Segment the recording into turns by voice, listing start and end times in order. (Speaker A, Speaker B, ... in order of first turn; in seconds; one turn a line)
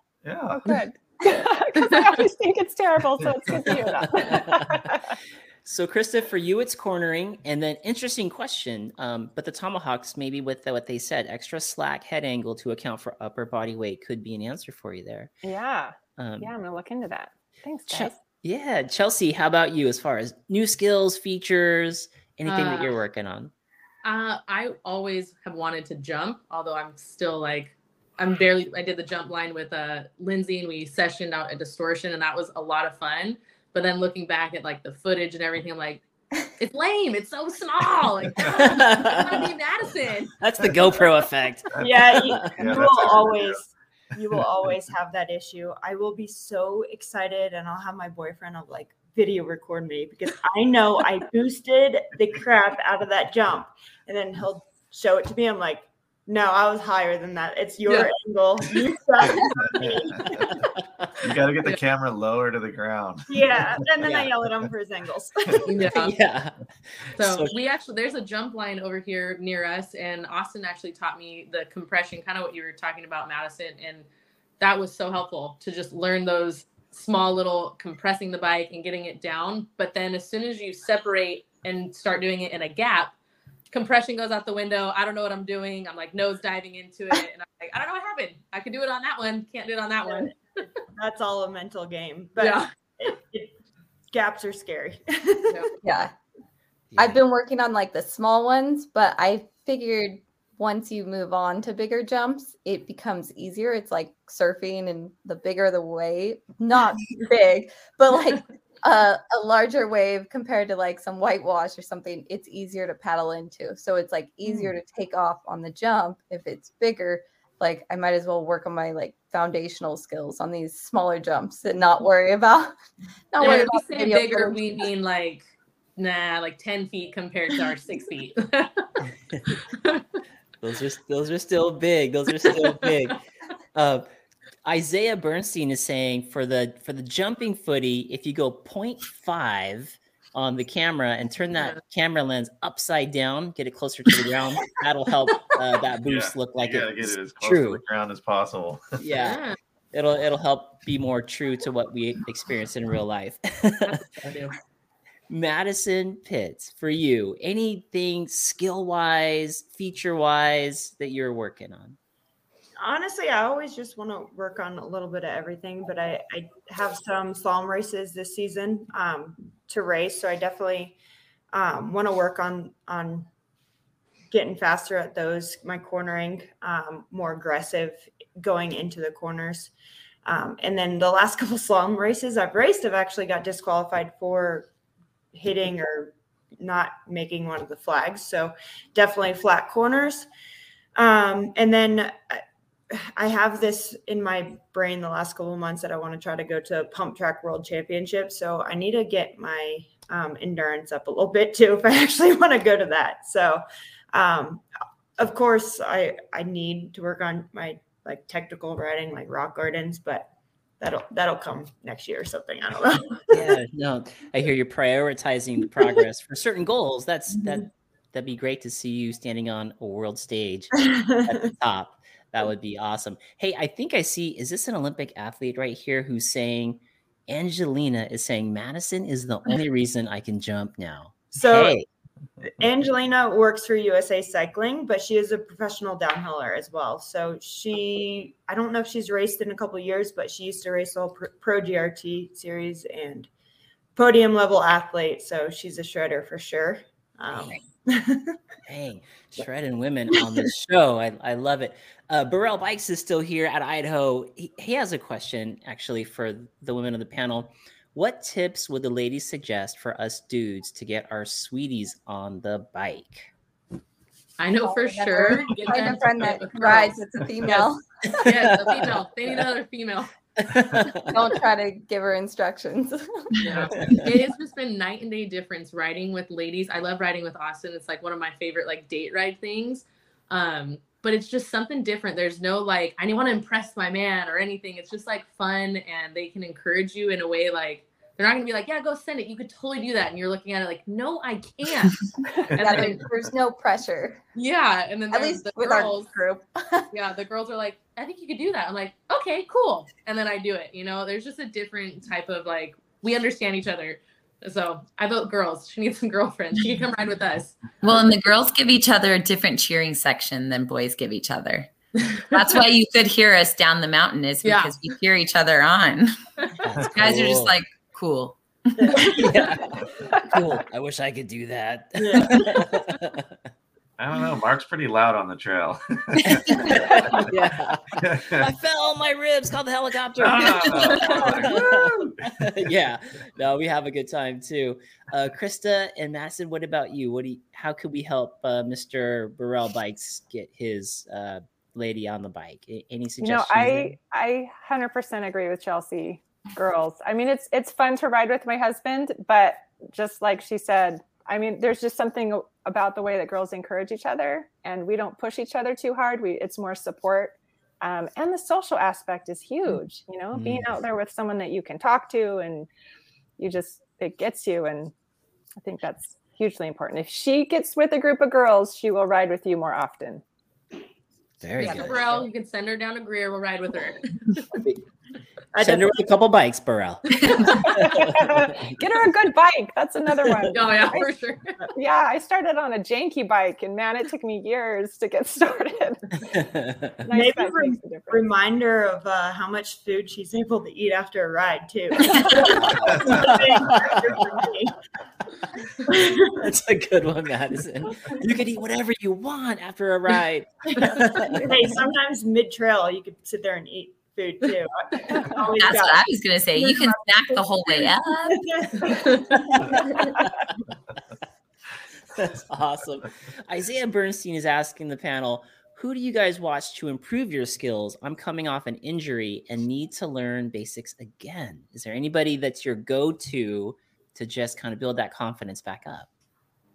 Speaker A: 0.2-0.8
Speaker B: 0.6-5.2
Speaker C: 4.0-4.9
Speaker C: 5.7-15.3
Speaker B: 15.4-18.2
Speaker C: 16.2-16.5
Speaker C: 17.9-23.5
Speaker D: 22.5-22.9
Speaker D: 24.0-36.0
Speaker D: 36.6-40.3
Speaker C: 38.4-39.5
Speaker C: 40.4-42.5
Speaker A: 40.6-41.0
Speaker A: 41.8-43.5
Speaker E: 41.8-60.2
Speaker D: 57.9-58.1
Speaker A: 59.2-60.5
Speaker A: 61.2-64.2
Speaker E: 63.3-66.1
Speaker C: 64.0-64.3
Speaker D: 65.7-66.2
Speaker C: 65.9-67.5
Speaker D: 67.2-74.1
Speaker D: 74.6-83.1
Speaker D: 83.7-90.4
Speaker E: 91.0-93.6
Speaker D: 92.4-92.7
Speaker E: 94.1-95.7
Speaker F: 95.8-96.1
Speaker C: 96.9-97.2
Speaker F: 97.0-122.8
Speaker F: 123.3-124.9
Speaker D: 123.4-128.9
Speaker D: 129.5-130.0
Speaker C: 130.6-133.2
Speaker C: 133.8-134.1
Speaker C: 134.7-147.8
Speaker A: 146.0-148.9
Speaker C: 149.0-149.4
Speaker D: 149.2-149.6
Speaker C: 149.9-154.0
Speaker D: 153.8-154.6
Speaker C: 155.3-162.0
Speaker E: 162.8-171.0
Speaker E: 171.5-173.3
Speaker E: 174.3-179.7
Speaker E: 180.2-184.7
Speaker E: 185.3-190.3
Speaker E: 191.0-204.7
Speaker E: 205.2-213.4
Speaker C: 213.3-220.7
Speaker E: 220.8-221.5
Speaker C: 221.2-231.9
Speaker E: 231.3-231.8
Speaker E: 232.6-243.3
Speaker E: 244.0-248.4
Speaker C: 247.3-247.6
Speaker C: 248.7-263.3
Speaker D: 264.4-267.7
Speaker F: 264.7-267.8
Speaker C: 268.1-269.0
Speaker D: 268.2-270.1
Speaker C: 270.4-271.1
Speaker F: 271.1-273.3
Speaker D: 273.4-292.0
Speaker C: 273.8-274.1
Speaker A: 292.5-292.9
Speaker D: 292.6-293.0
Speaker F: 292.6-294.2
Speaker D: 294.4-296.1
Speaker F: 295.1-296.9
Speaker D: 296.9-307.6
Speaker G: 307.8-311.7
Speaker G: 312.3-316.2
Speaker D: 314.4-314.8
Speaker C: 316.6-317.6
Speaker G: 316.9-318.4
Speaker E: 318.8-319.4
Speaker C: 319.1-323.3
Speaker E: 322.1-322.6
Speaker A: 324.0-327.3
Speaker G: 326.3-326.8
Speaker C: 326.3-343.9
Speaker A: 327.9-328.5
Speaker A: 330.2-331.7
Speaker E: 331.4-332.1
Speaker B: 343.2-362.7
Speaker C: 360.3-360.7
Speaker B: 363.4-364.9
Speaker B: 365.6-370.2
Speaker C: 371.4-372.0
Speaker D: 371.6-374.1
Speaker C: 374.6-374.8
Speaker E: 375.5-375.9
Speaker C: 375.6-378.8
Speaker B: 377.6-381.1
Speaker D: 380.5-381.6
Speaker B: 381.8-386.1
Speaker C: 386.3-387.0
Speaker B: 387.1-388.3
Speaker E: 387.1-394.7
Speaker C: 392.6-394.0
Speaker A: 392.9-393.2
Speaker E: 395.9-396.4
Speaker C: 396.4-401.8
Speaker E: 401.4-410.2
Speaker G: 405.6-408.4
Speaker C: 409.4-410.5
Speaker C: 412.1-426.1